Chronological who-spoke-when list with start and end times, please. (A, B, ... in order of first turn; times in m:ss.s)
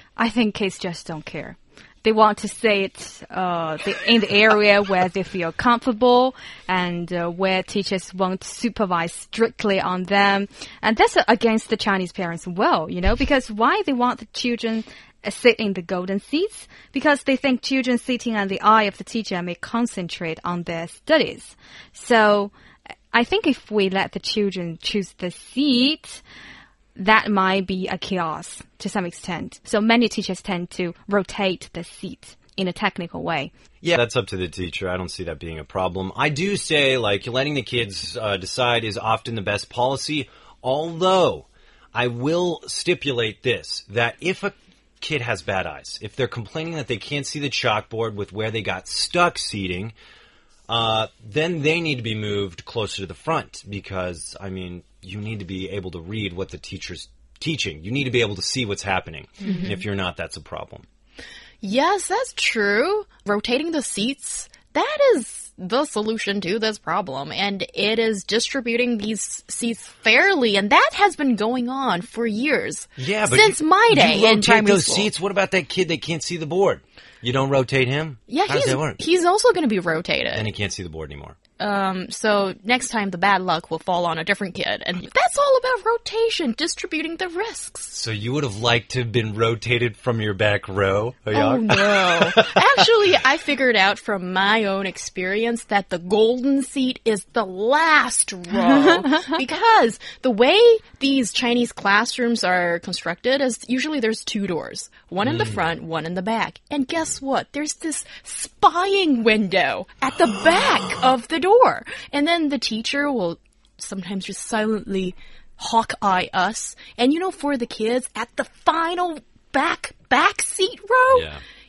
0:00.2-0:22.5 A
0:23.1-0:26.2 A
0:27.0-0:33.5 A
0:33.8-0:49.9 B
0:50.7-1:00.8 B
0:59.4-0:59.8 C
1:01.6-1:15.1 C
1:13.0-1:19.0 B
1:18.3-1:20.5 C
1:20.3-1:21.4 B
1:21.6-1:27.9 C
1:27.9-1:32.5 B
1:31.3-2:01.3 C
1:45.2-1:45.6 B
2:01.1-2:01.4 B